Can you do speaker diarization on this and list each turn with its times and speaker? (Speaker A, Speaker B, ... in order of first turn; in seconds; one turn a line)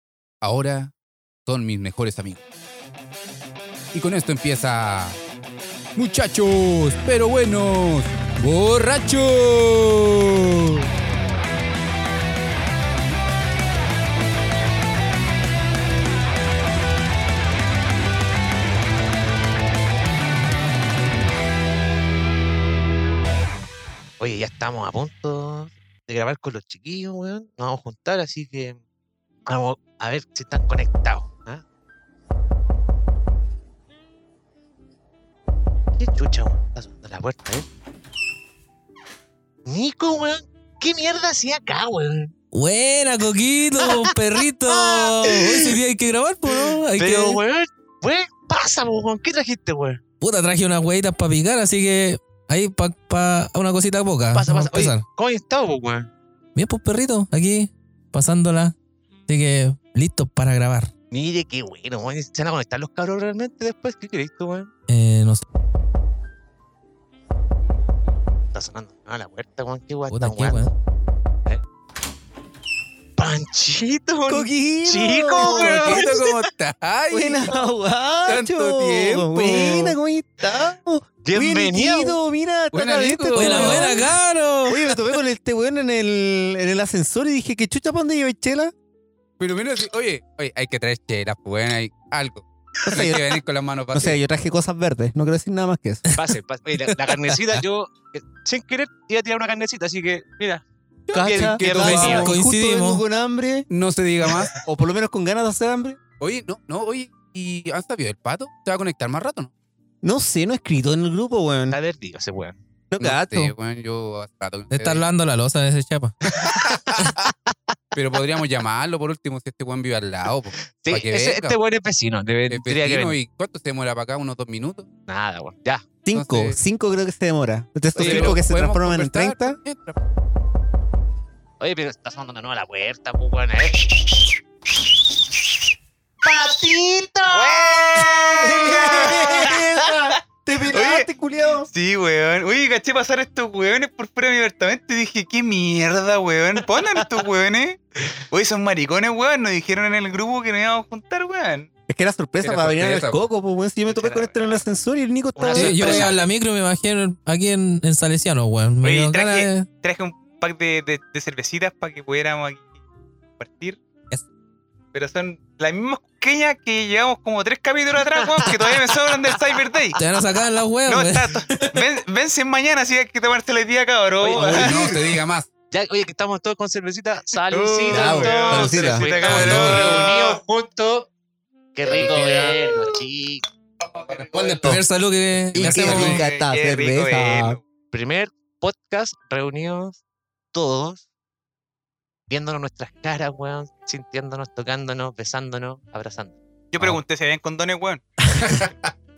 Speaker A: 0.4-0.9
Speaker A: 1.4-2.4
Speaker A: 3.9-5.2
Speaker A: 6.0-10.8
Speaker B: 24.2-28.8
Speaker B: 29.5-31.6
Speaker B: 36.0-37.7
Speaker B: 39.6-42.3
Speaker C: 42.5-47.4
Speaker B: 43.8-45.8
Speaker B: 46.5-50.0
Speaker C: 50.2-55.0
Speaker B: 54.3-56.1
Speaker C: 56.5-58.7
Speaker C: 59.3-60.9
Speaker B: 61.1-64.7
Speaker C: 64.9-65.4
Speaker B: 68.5-70.7
Speaker C: 70.1-70.7
Speaker B: 73.2-76.5
Speaker D: 74.3-76.1
Speaker A: 75.4-77.5
Speaker D: 77.1-84.1
Speaker A: 78.2-79.9
Speaker B: 81.2-82.2
Speaker A: 82.7-84.0
Speaker C: 83.3-84.8
Speaker D: 84.7-88.7
Speaker A: 89.4-94.2
Speaker D: 92.8-93.3
Speaker D: 93.9-96.1
Speaker B: 96.2-102.4
Speaker A: 101.1-102.3
Speaker D: 101.1-103.7
Speaker C: 101.7-103.0
Speaker A: 103.7-104.5
Speaker D: 104.5-106.0
Speaker A: 106.2-109.5
Speaker D: 110.0-111.8
Speaker B: 111.7-112.5
Speaker D: 112.9-113.5
Speaker A: 113.0-115.0
Speaker C: 114.7-116.1
Speaker B: 116.4-116.7
Speaker A: 117.9-121.6
Speaker B: 120.8-123.2
Speaker A: 122.5-124.9
Speaker B: 125.1-125.8
Speaker D: 126.0-129.6
Speaker A: 126.1-126.6
Speaker A: 127.9-130.0
Speaker B: 128.0-128.3
Speaker B: 131.6-134.4
Speaker B: 136.2-139.6
Speaker E: 137.3-139.6
Speaker D: 138.3-141.7
Speaker E: 140.7-141.1
Speaker E: 141.6-151.7
Speaker D: 151.9-156.1
Speaker A: 152.4-153.2
Speaker E: 155.4-156.2
Speaker C: 155.5-159.7
Speaker E: 158.8-162.7
Speaker E: 163.4-163.8
Speaker E: 164.9-170.0
Speaker C: 170.0-171.8
Speaker E: 170.9-175.0
Speaker B: 174.2-174.9
Speaker A: 174.3-175.5
Speaker B: 175.7-181.1
Speaker E: 177.5-180.3
Speaker D: 177.9-179.3
Speaker A: 179.2-180.1
Speaker B: 181.7-183.4
Speaker D: 182.0-182.6
Speaker B: 183.9-184.6
Speaker D: 184.3-184.8
Speaker C: 184.5-186.2
Speaker D: 185.5-187.6
Speaker E: 185.7-187.6
Speaker B: 187.9-190.0
Speaker B: 190.5-191.0
Speaker B: 192.3-196.3
Speaker E: 196.7-198.0
Speaker D: 198.2-198.9